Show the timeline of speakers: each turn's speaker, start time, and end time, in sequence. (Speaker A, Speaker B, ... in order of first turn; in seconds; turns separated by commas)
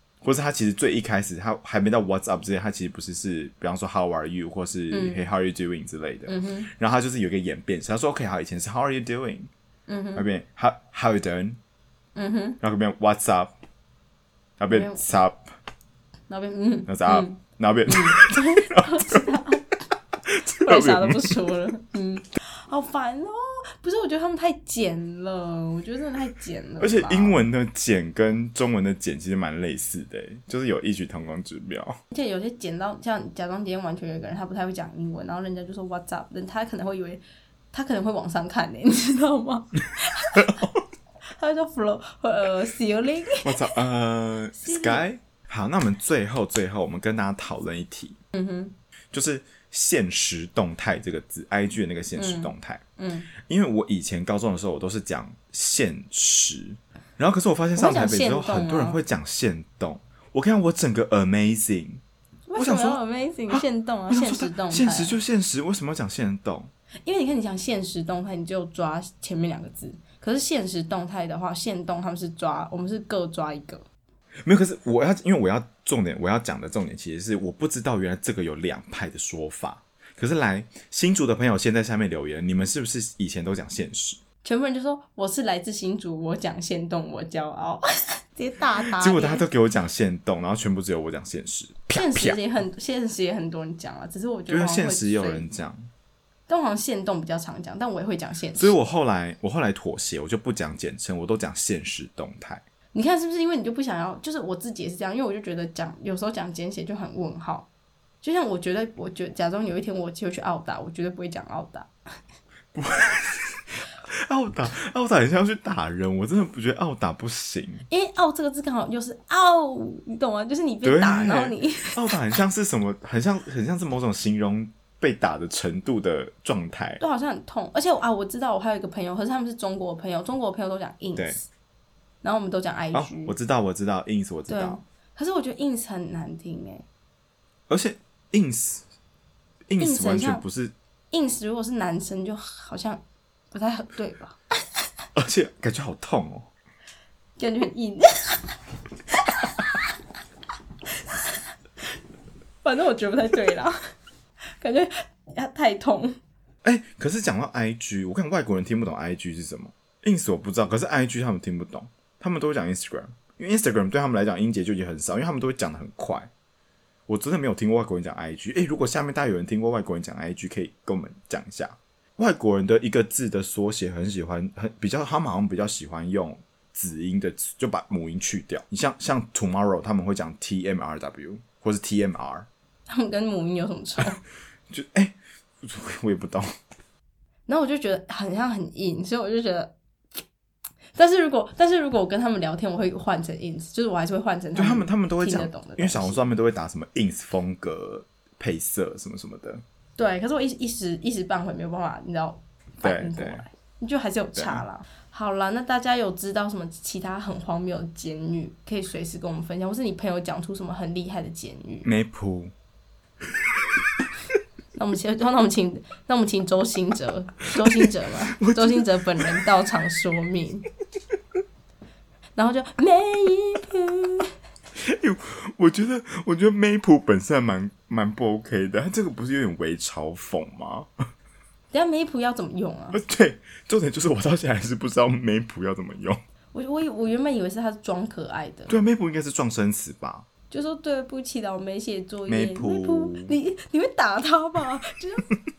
Speaker A: 0.2-9.5, Speaker B: 4.9-5.2, Speaker B: 6.3-6.7, Speaker B: 9.9-10.2, Speaker A: 10.1-11.6, Speaker B: 12.1-12.6, Speaker A: 12.6-13.5, Speaker A: 14.6-15.4, Speaker B: 14.7-15.0, Speaker B: 16.3-19.8, Speaker A: 16.9-19.3, Speaker A: 20.2-21.4, Speaker B: 20.6-27.4, Speaker A: 26.8-32.0, Speaker B: 32.1-40.6, Speaker A: 40.3-40.8, Speaker B: 41.3-43.6, Speaker A: 43.4-48.2, Speaker B: 44.6-45.0, Speaker B: 48.3-48.7, Speaker A: 49.1-52.8, Speaker B: 52.1-53.3, Speaker A: 53.5-62.0, Speaker B: 57.8-59.0, Speaker B: 62.5-65.1, Speaker A: 62.6-66.7, Speaker B: 67.0-73.8, Speaker A: 74.5-84.2, Speaker B: 84.4-89.5, Speaker A: 89.0-92.4, Speaker B: 91.9-95.5, Speaker A: 94.5-95.9, Speaker B: 96.5-98.7, Speaker A: 98.5-102.6, Speaker B: 102.9-107.7, Speaker B: 108.2-111.9, Speaker A: 112.7-117.8, Speaker B: 117.9-122.1, Speaker A: 120.8-127.0, Speaker B: 127.0-131.4, Speaker B: 132.2-133.3, Speaker A: 132.9-134.8, Speaker B: 134.5-136.8, Speaker A: 137.7-138.8, Speaker A: 139.7-140.7, Speaker B: 139.8-140.4, Speaker B: 141.1-144.8, Speaker A: 145.2-146.5, Speaker B: 147.4-148.6, Speaker B: 149.1-149.9, Speaker B: 150.9-151.4, Speaker B: 152.6-153.8, Speaker B: 154.6-156.2, Speaker A: 156.6-166.3, Speaker A: 167.1-182.5, Speaker B: 182.9-184.2, Speaker A: 184.7-186.5, Speaker B: 187.5-189.7, Speaker B: 190.9-196.2, Speaker A: 194.5-199.6, Speaker B: 200.0-211.9, Speaker A: 202.8-203.4, Speaker A: 204.3-204.6, Speaker A: 211.8-212.5, Speaker B: 214.7-220.7, Speaker A: 217.6-219.4, Speaker B: 222.3-224.3, Speaker A: 224.8-230.9, Speaker B: 231.7-233.0, Speaker A: 232.9-236.2, Speaker B: 236.5-238.7, Speaker A: 238.7-240.2, Speaker B: 240.5-245.2, Speaker A: 242.3-243.3